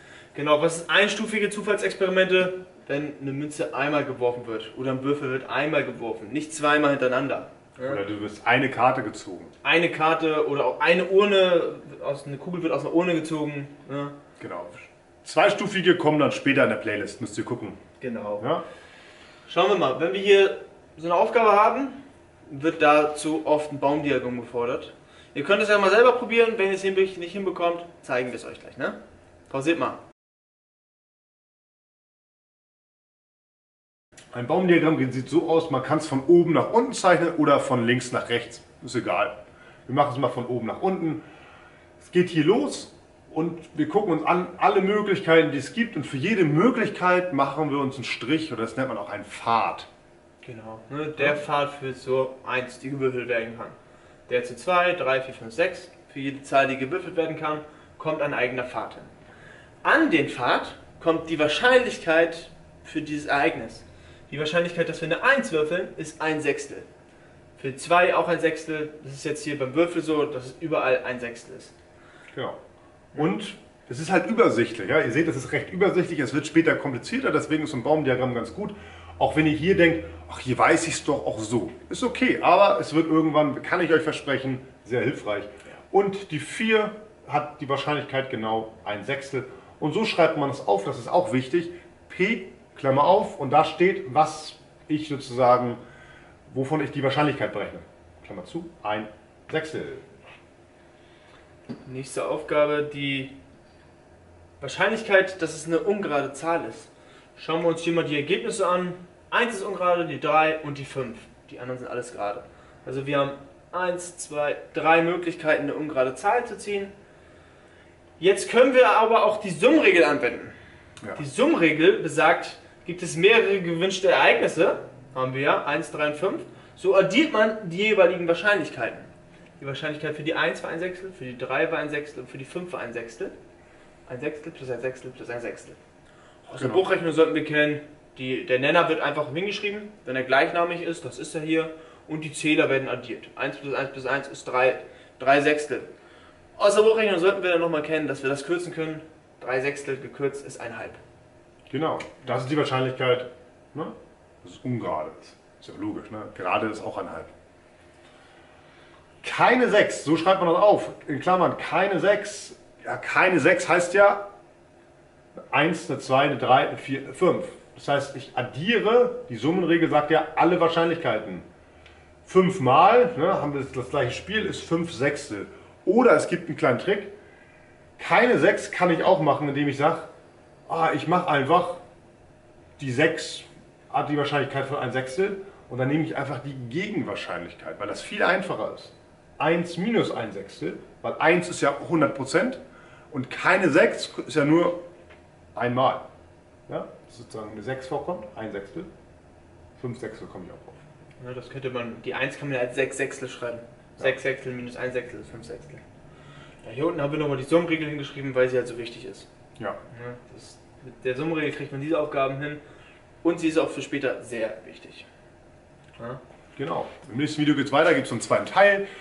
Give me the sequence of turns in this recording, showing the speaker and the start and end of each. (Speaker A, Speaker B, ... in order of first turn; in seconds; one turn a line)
Speaker A: 0.3-8.0
Speaker B: 7.8-9.5
Speaker A: 9.6-14.2
Speaker B: 14.4-17.8
Speaker A: 18.0-18.5
Speaker B: 18.4-18.6
Speaker A: 19.5-28.9
Speaker A: 29.5-30.0
Speaker B: 34.3-41.2
Speaker B: 42.0-49.9
Speaker A: 50.4-53.8
Speaker A: 54.3-59.1
Speaker A: 59.8-66.8
Speaker A: 67.6-71.7
Speaker B: 73.1-95.8
Speaker B: 96.5-100.0
Speaker A: 101.8-103.3
Speaker A: 104.6-116.9
Speaker A: 118.2-120.5
Speaker A: 121.1-129.1
Speaker A: 129.6-133.3
Speaker A: 134.1-135.8
Speaker A: 136.4-145.9
Speaker B: 136.5-136.8
Speaker A: 146.6-151.0
Speaker B: 151.7-157.3
Speaker B: 159.2-164.2
Speaker B: 165.5-171.5
Speaker B: 172.2-177.1
Speaker B: 178.0-180.1
Speaker B: 180.7-181.8
Speaker B: 182.8-192.6
Speaker B: 193.1-194.8
Speaker B: 195.5-196.0
Speaker B: 196.7-198.9
Speaker B: 199.8-200.8
Speaker A: 201.2-205.8
Speaker A: 206.6-209.3
Speaker A: 209.9-212.6
Speaker A: 213.2-215.1
Speaker B: 216.6-218.8